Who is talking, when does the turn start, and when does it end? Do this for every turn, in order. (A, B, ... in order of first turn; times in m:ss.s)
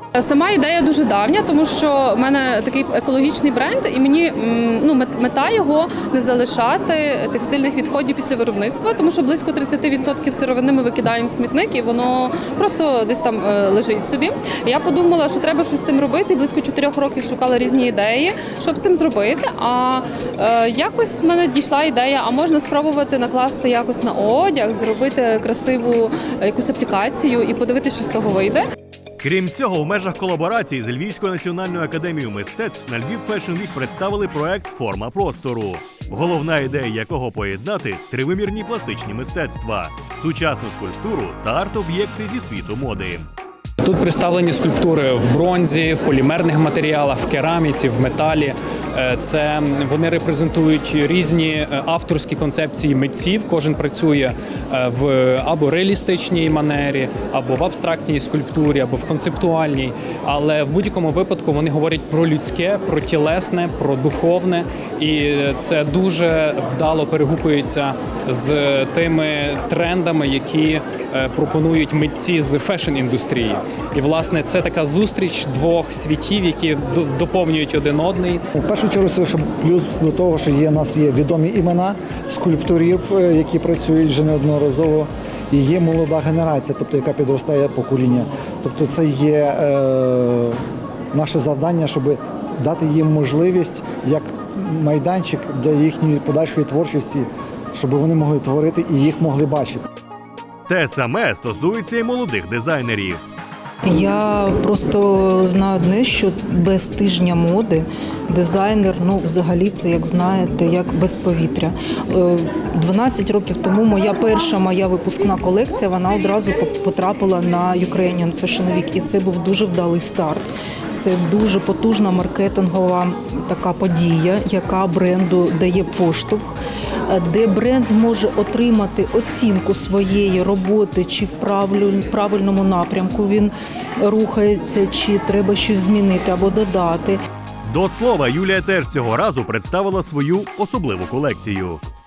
0:00.2-0:28.6 A
0:29.2-0:43.3 B
0:43.8-1:18.4 C
1:18.6-1:30.6 D
1:31.1-1:39.9 D
1:40.7-1:43.2 B
1:43.8-2:06.6 E
2:07.1-2:17.2 E
2:17.6-2:21.8 B